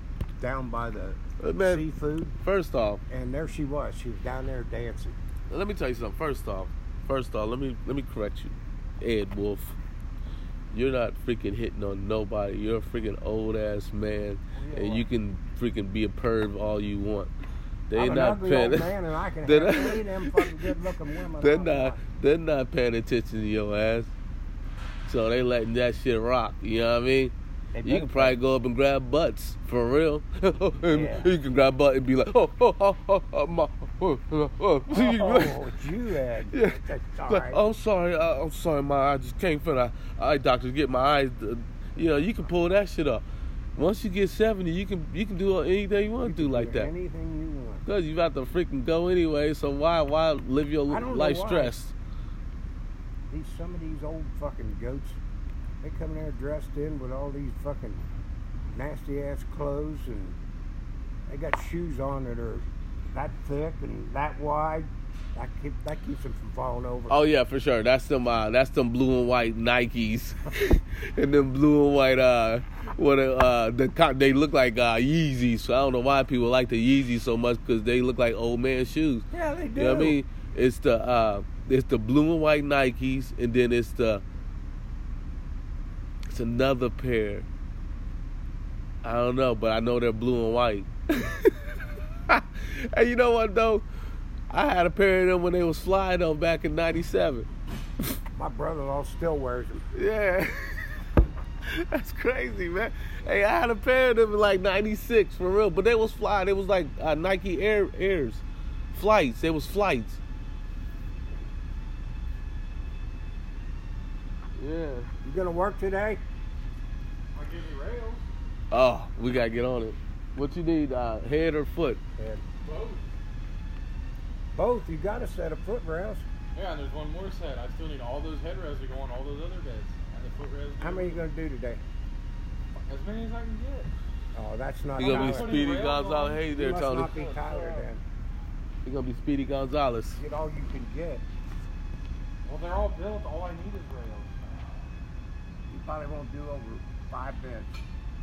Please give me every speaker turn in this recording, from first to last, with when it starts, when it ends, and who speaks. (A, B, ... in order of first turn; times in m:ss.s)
0:00.4-0:02.4 A
0:01.4-0:01.8 B
0:02.4-0:03.0 B
0:03.1-0:05.2 A
0:05.5-0:09.8 B
0:10.7-0:17.3 B
0:14.5-0:15.1 A
0:17.9-0:20.8 B
0:17.9-0:22.0 A
0:21.4-0:24.1 B
0:25.0-0:27.3 B
0:27.7-0:28.4 A
0:27.8-0:35.6 B
0:30.9-0:31.3 A
0:34.9-0:37.6 A
0:36.5-0:43.2 B
0:43.8-0:46.9 B
0:46.2-0:47.8 A
0:47.8-0:51.9 B
0:50.9-0:51.7 A
0:53.3-0:55.2 A
0:55.8-0:58.0 A
0:58.7-1:00.4 A
1:01.3-1:07.2 A
1:07.1-1:24.2 B
1:19.3-1:20.2 A
1:26.3-1:27.4 B
1:29.0-1:33.8 B
1:34.5-1:37.5 B
1:38.3-1:39.8 A
1:39.9-1:41.1 B
1:41.6-1:50.2 B
1:54.6-1:55.1 B
1:55.2-1:56.2 A
1:57.3-1:58.2 C
1:58.7-2:02.0 B
2:02.2-2:02.4 A
2:02.6-2:03.0 C
2:04.5-2:06.2 A
2:06.5-2:11.2 C
2:10.8-2:11.8 A
2:12.8-2:13.9 C
2:14.3-2:15.8 A
2:15.0-2:17.1 B
2:15.0-2:16.5 C
2:16.5-2:18.0 A
2:17.2-2:17.8 C
2:18.8-2:20.2 B
2:20.2-2:21.2 A
2:22.4-2:24.7 C
2:25.7-2:27.8 A